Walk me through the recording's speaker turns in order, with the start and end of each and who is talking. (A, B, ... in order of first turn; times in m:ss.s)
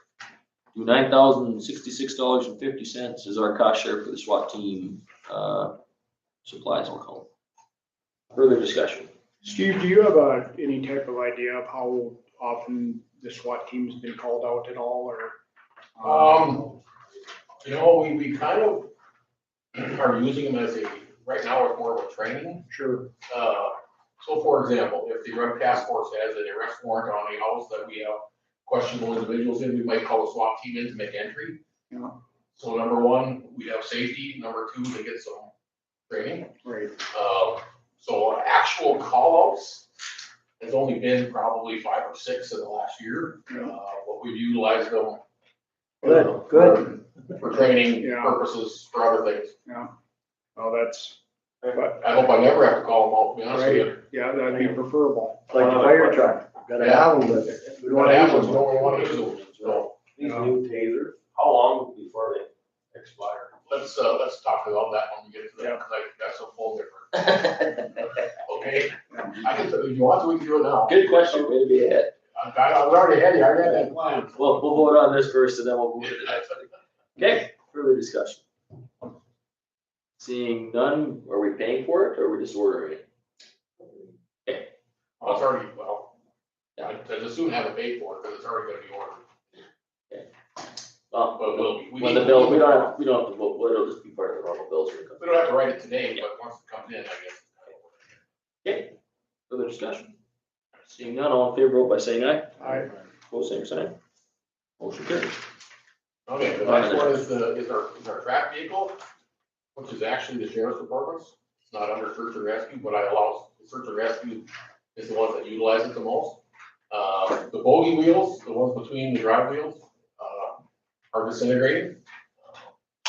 0:00.7-0:05.8 A
0:06.4-0:07.3 A
0:08.3-0:09.1 A
0:09.4-0:15.4 B
0:16.0-0:16.8 B
0:16.0-0:16.7 C
0:17.6-0:18.9 C
0:19.8-0:22.7 C
0:22.7-0:23.1 B
0:23.3-0:31.6 C
0:31.9-0:32.2 B
0:32.5-0:35.5 C
0:36.1-0:36.5 C
0:36.6-0:37.0 B
0:37.1-0:39.9 C
0:40.6-0:45.2 C
0:46.0-0:46.9 D
0:46.1-0:49.6 C
0:48.0-0:48.4 B
0:49.7-0:49.9 B
0:50.6-0:51.2 B
0:51.7-0:52.1 B
0:52.0-0:54.0 C
0:53.5-0:55.6 B
0:55.5-0:58.8 D
0:55.6-0:56.2 E
0:56.8-0:57.2 C
0:57.9-1:00.0 C
0:57.9-0:59.9 A
1:00.2-1:03.5 E
1:00.2-1:00.5 B
1:00.7-1:02.4 A
1:03.1-1:03.4 A
1:03.7-1:07.7 C
1:08.4-1:11.0 C
1:09.1-1:09.4 B
1:10.9-1:12.1 A
1:12.3-1:14.6 C
1:14.4-1:16.5 A
1:16.0-1:16.8 C
1:17.2-1:18.4 A
1:20.2-1:23.0 A
1:24.4-1:24.7 A
1:25.2-1:26.1 C
1:26.8-1:29.2 C
1:31.1-1:35.2 A
1:31.4-1:32.9 C
1:35.2-1:38.2 C
1:38.6-1:38.9 A
1:39.5-1:40.2 A
1:40.9-1:44.0 A
1:42.6-1:42.9 B
1:44.8-1:45.4 A
1:46.3-1:49.0 C
1:46.6-1:47.2 A
1:49.8-1:56.4 C
1:56.9-2:00.6 C
2:01.1-2:02.7 C